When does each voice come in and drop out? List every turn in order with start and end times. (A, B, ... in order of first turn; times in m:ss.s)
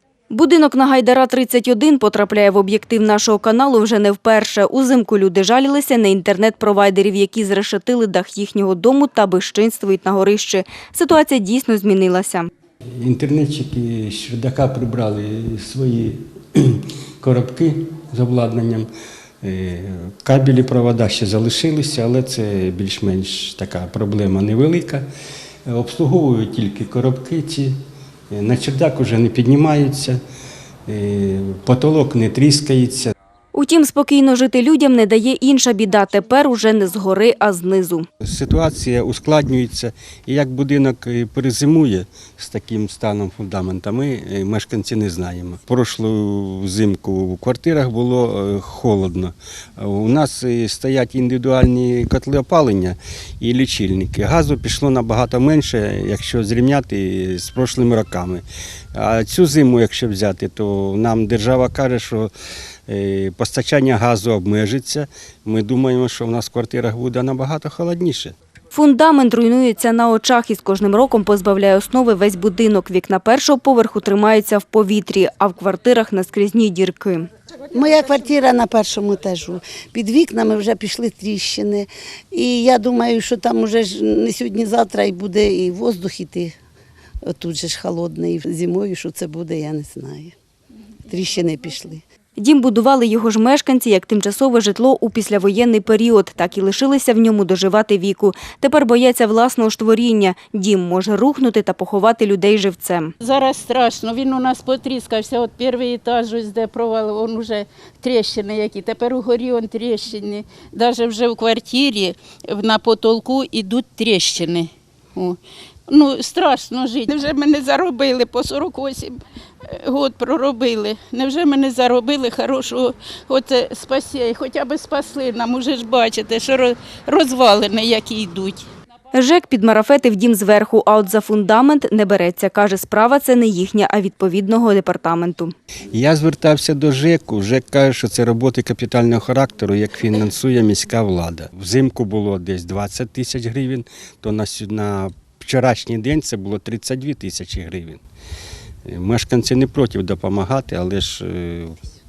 0:00.3-0:12.5 A
0:13.0-0:18.9 B
0:19.4-0:25.0 B
0:25.7-0:27.8 B
0:28.3-0:30.2 B
0:30.9-0:33.1 B
0:33.5-0:38.0 A
0:38.2-1:02.3 B
1:02.9-1:08.3 B
1:08.7-1:17.3 A
1:17.7-1:26.5 C
1:27.3-1:30.3 C
1:31.1-1:32.0 C
1:32.4-1:43.1 A
1:43.2-1:59.2 D
1:59.7-2:08.6 D
2:09.1-2:15.5 A
2:15.9-2:28.0 B
2:28.9-2:31.7 B